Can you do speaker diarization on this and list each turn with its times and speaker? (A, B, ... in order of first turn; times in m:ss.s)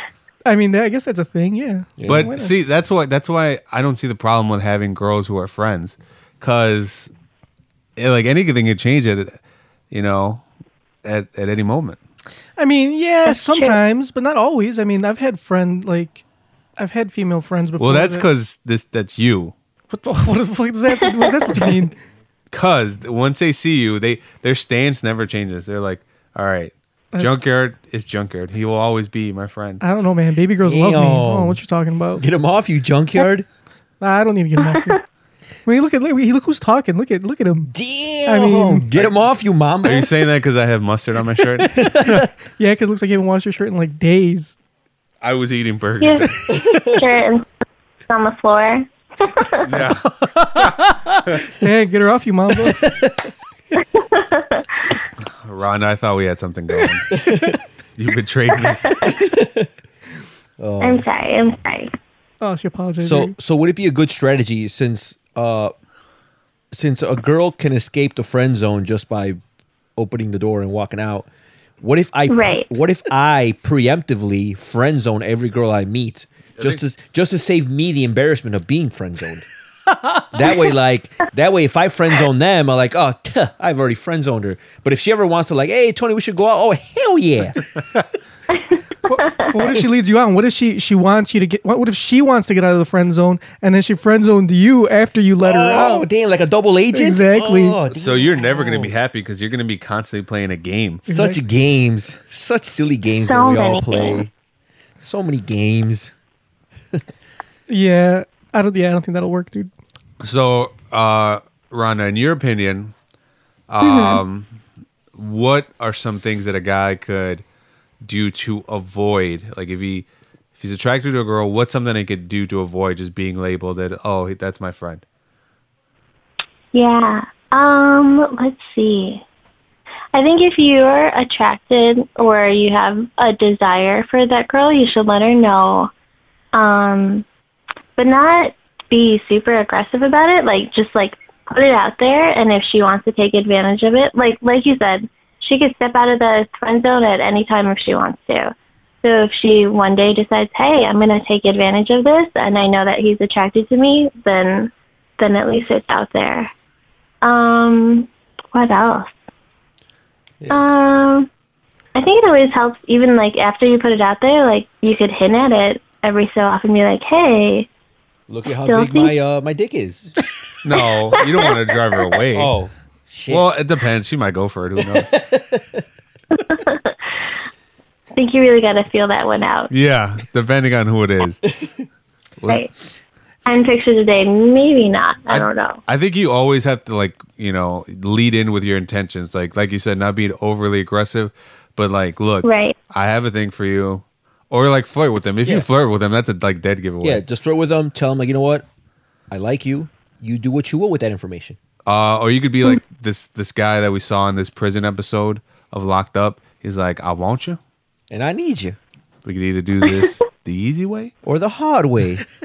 0:00.5-0:02.5 A
0:02.0-0:02.3 B
0:02.1-0:07.1 C
0:08.0-0:09.4 C
0:09.9-0:10.4 C
0:11.0-0:12.0 C
0:12.6-0:16.2 A
0:13.3-0:13.8 D
0:16.8-0:18.3 A
0:17.8-0:19.5 C
0:19.9-0:22.0 A
0:22.5-0:29.8 C
0:29.8-0:32.2 A
0:30.6-0:31.6 B
0:32.2-0:33.5 B
0:34.0-0:35.0 A
0:34.6-0:35.0 D
0:35.7-0:37.7 A
0:37.7-0:40.1 B
0:38.3-0:38.9 A
0:39.8-0:42.3 C
0:41.6-0:42.3 B
0:42.6-0:44.6 A
0:45.2-0:46.4 C
0:46.0-0:47.5 D
0:46.5-0:47.0 B
0:48.1-0:49.6 D
0:49.6-0:51.4 C
0:51.6-0:52.8 A
0:52.6-0:53.3 B
0:53.8-0:54.7 D
0:55.4-0:57.2 C
0:57.1-0:57.6 B
0:58.0-0:59.1 C
0:58.7-0:59.2 D
0:59.1-0:59.7 B
1:00.6-1:01.1 B
1:00.8-1:01.9 D
1:02.4-1:03.4 A
1:03.0-1:05.7 B
1:06.7-1:09.4 B
1:10.0-1:11.3 B
1:11.8-1:19.5 B
1:12.3-1:12.7 D
1:20.3-1:27.7 B
1:29.1-1:36.1 A
1:35.4-1:38.9 B
1:36.9-1:37.8 A
1:37.9-1:41.0 C
1:41.1-1:41.4 A
1:41.1-1:44.3 B
1:43.3-1:44.2 D
1:45.0-1:46.1 B
1:47.7-1:49.7 A
1:50.2-1:52.9 C
1:53.7-1:54.5 C
1:53.8-1:54.2 D
1:55.2-1:57.4 C
1:58.0-2:05.0 C
2:06.7-2:09.2 D
2:10.1-2:15.9 D
2:16.5-2:17.3 D
2:18.0-2:36.5 D
2:37.2-2:39.2 D
2:40.5-2:41.3 D
2:42.0-2:47.7 D
2:48.3-2:50.2 B
2:48.6-2:49.1 D
2:50.6-2:52.5 C
2:52.4-2:53.5 B
2:53.3-2:55.1 C
2:54.8-2:55.8 B
2:56.4-2:57.0 D
2:58.1-2:59.7 D
2:59.7-3:01.5 C
3:01.6-3:01.8 B
3:02.4-3:02.6 C
3:03.5-3:05.8 D
3:05.3-3:17.2 C
3:12.4-3:12.8 D
3:17.0-3:18.7 B
3:19.3-3:21.6 B
3:21.9-3:27.6 C
3:28.1-3:28.8 B
3:29.2-3:31.1 C
3:31.2-3:32.2 B